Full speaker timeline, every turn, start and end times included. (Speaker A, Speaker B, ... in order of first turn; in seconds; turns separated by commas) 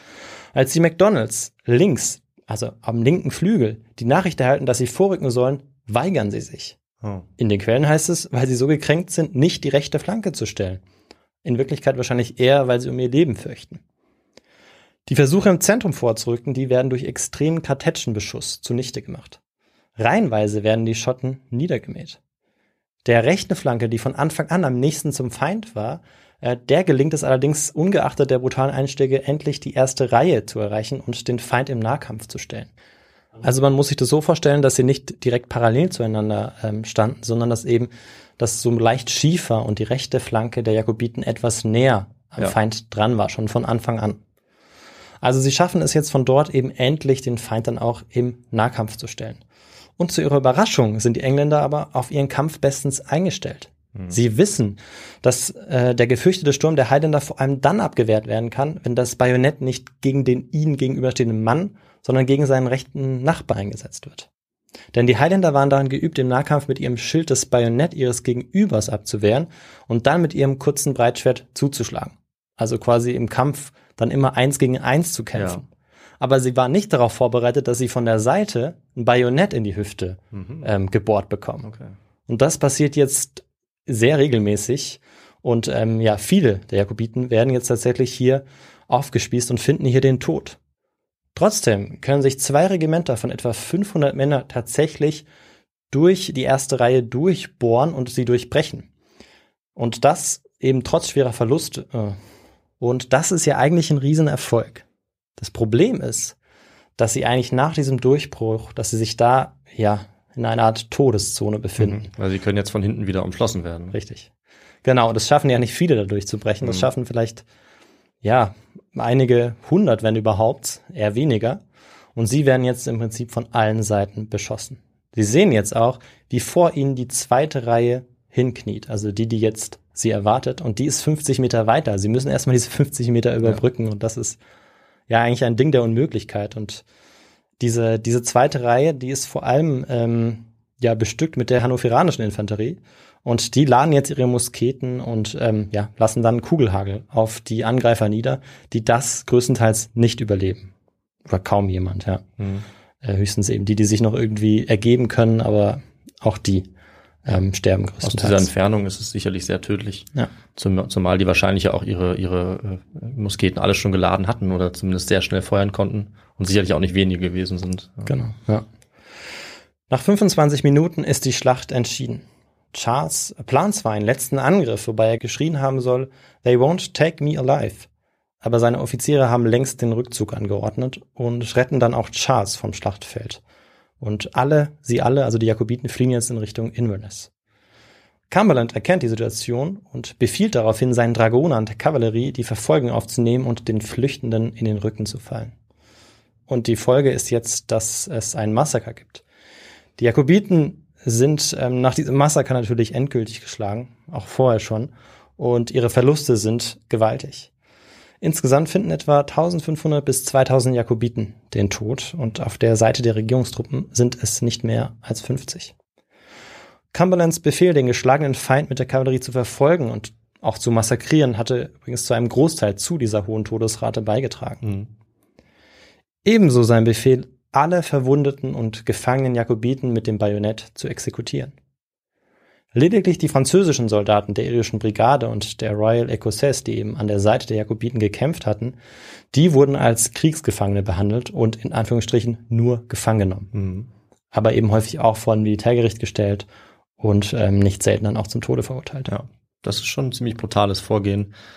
Speaker A: 0.5-6.8, Speaker A: 7.4-10.8, Speaker A: 11.4-13.8, Speaker A: 15.1-19.4, Speaker A: 20.0-22.2, Speaker A: 23.0-32.7, Speaker A: 33.4-44.2, Speaker A: 45.2-49.4, Speaker A: 50.0-64.3, Speaker A: 64.9-75.7, Speaker B: 75.3-75.6, Speaker A: 76.2-81.7, Speaker B: 80.3-80.7, Speaker B: 81.6-81.9, Speaker A: 82.3-90.6, Speaker A: 91.3-95.2, Speaker A: 95.9-98.9, Speaker A: 99.8-102.2, Speaker A: 102.8-104.8, Speaker A: 105.4-106.3, Speaker A: 107.0-112.1, Speaker B: 111.8-114.0, Speaker A: 113.9-114.3, Speaker A: 114.8-117.4, Speaker A: 118.2-121.6, Speaker A: 122.2-134.4, Speaker A: 135.1-136.8, Speaker A: 137.6-150.7, Speaker A: 151.3-152.2, Speaker B: 152.4-152.7, Speaker A: 153.0-156.7, Speaker A: 157.2-158.5, Speaker B: 158.0-168.1, Speaker A: 168.1-168.6, Speaker A: 169.9-177.9, Speaker A: 178.4-183.4, Speaker A: 184.0-187.3, Speaker A: 188.3-195.5, Speaker A: 196.5-199.2, Speaker A: 200.0-207.5, Speaker A: 208.2-215.7, Speaker A: 216.9-224.6, Speaker B: 224.6-224.9, Speaker A: 226.2-231.5, Speaker A: 232.7-238.8, Speaker A: 239.3-243.5, Speaker B: 243.5-243.9, Speaker A: 244.3-246.4, Speaker A: 247.0-249.1, Speaker B: 249.1-251.3